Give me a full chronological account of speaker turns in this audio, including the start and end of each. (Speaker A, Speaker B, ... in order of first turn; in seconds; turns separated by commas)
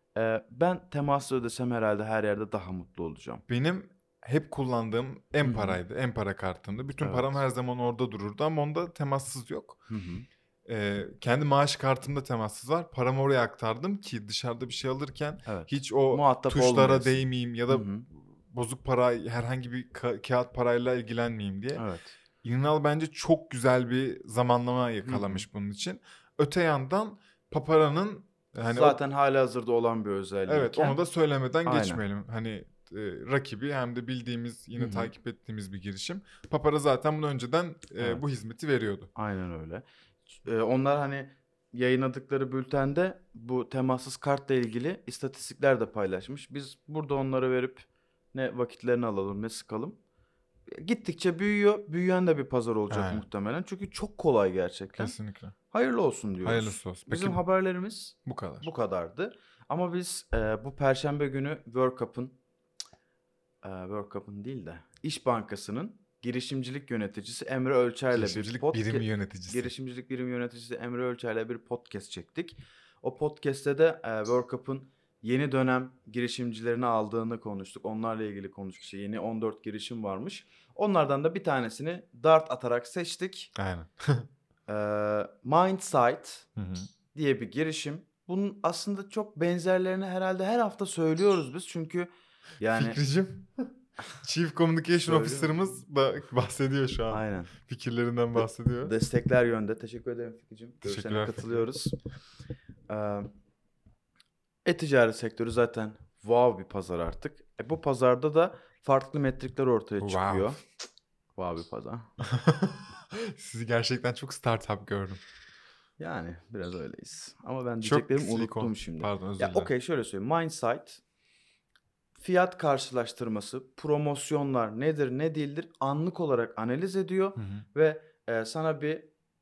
Speaker A: 0.1-3.4, Speaker B: 3.5-9.8, Speaker A: 5.4-5.8, Speaker A: 7.0-7.4, Speaker A: 9.9-10.2, Speaker B: 10.7-21.8, Speaker A: 15.4-18.0, Speaker A: 21.7-22.1, Speaker B: 22.4-29.0, Speaker A: 25.0-25.4, Speaker A: 28.7-31.0, Speaker B: 30.5-39.1, Speaker A: 31.6-32.0, Speaker A: 34.8-35.1, Speaker A: 39.1-50.0, Speaker A: 50.7-55.1, Speaker B: 52.9-53.2, Speaker B: 55.0-55.5, Speaker A: 55.7-62.4, Speaker B: 56.4-57.4, Speaker B: 58.2-58.7, Speaker A: 63.6-83.5, Speaker B: 68.1-69.7, Speaker B: 83.5-84.3, Speaker A: 84.7-86.5, Speaker B: 86.5-86.9, Speaker A: 87.1-93.0, Speaker B: 92.7-93.7, Speaker B: 94.2-98.9, Speaker A: 94.9-95.8, Speaker A: 97.1-97.5, Speaker A: 98.3-102.0, Speaker B: 100.8-101.7, Speaker A: 102.9-103.3, Speaker A: 104.6-110.6, Speaker B: 110.0-110.6, Speaker A: 111.3-112.1, Speaker B: 112.2-115.2, Speaker A: 116.0-121.0, Speaker B: 117.8-119.7, Speaker A: 122.2-129.1, Speaker B: 127.4-127.6